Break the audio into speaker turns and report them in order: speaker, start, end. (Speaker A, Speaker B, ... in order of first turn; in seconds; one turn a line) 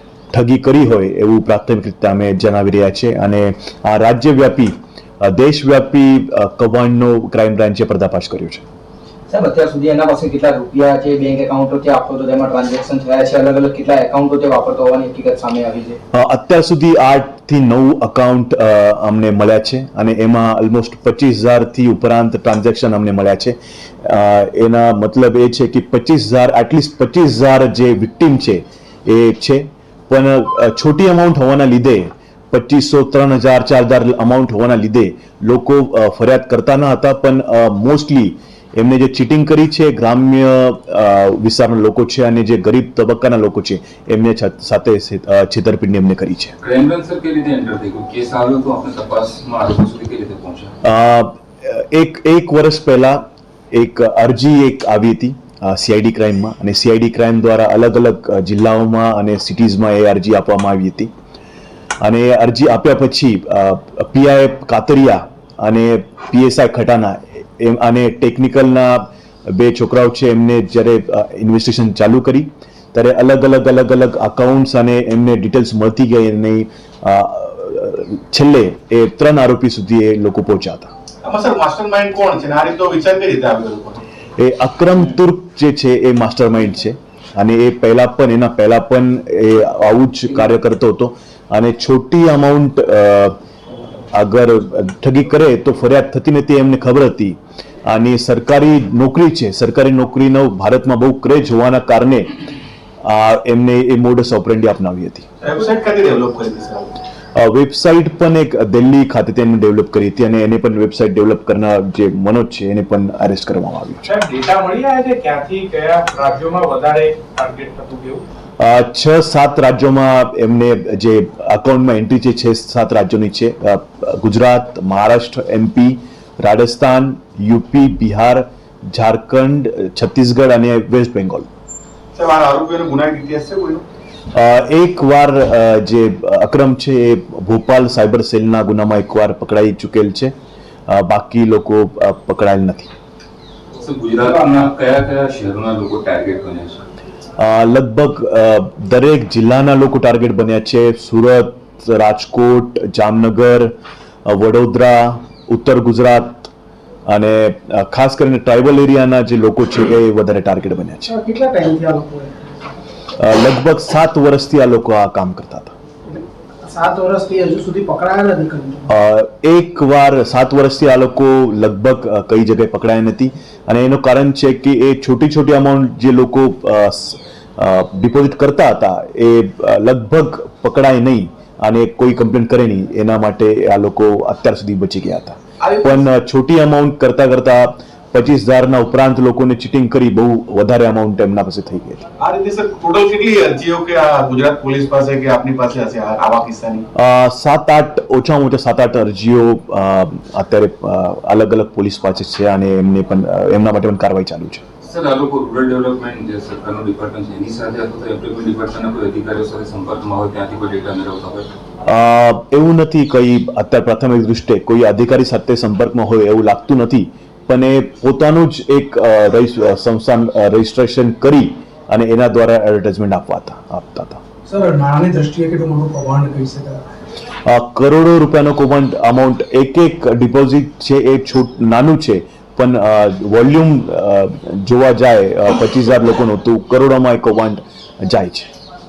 Speaker A: 0.3-8.6
Speaker B: 9.3-16.0
Speaker A: 16.1-46.5
Speaker C: 46.6-50.7
Speaker A: 50.8-61.1
Speaker A: 62.0-80.9
Speaker D: 81.2-84.0
Speaker A: 84.4-93.4
Speaker A: 94.1-102.3
Speaker A: 103.0-105.2
Speaker D: 105.4-107.0
Speaker A: 107.3-114.1
Speaker E: 114.1-118.2
Speaker A: 118.6-131.5
Speaker D: 132.1-133.8
Speaker A: 134.3-140.3
Speaker A: 140.9-142.9
Speaker C: 143.8-146.8
Speaker A: 147.4-156.5
Speaker A: 157.1-161.1
Speaker F: 161.1-162.6
Speaker A: 163.2-165.7
Speaker F: 166.1-168.9
Speaker A: 168.9-192.0
Speaker D: 185.6-186.0
Speaker D: 192.2-196.8
Speaker A: 196.9-204.6
Speaker C: 204.8-211.5
Speaker A: 211.8-224.2
Speaker F: 224.5-226.8
Speaker A: 227.4-238.5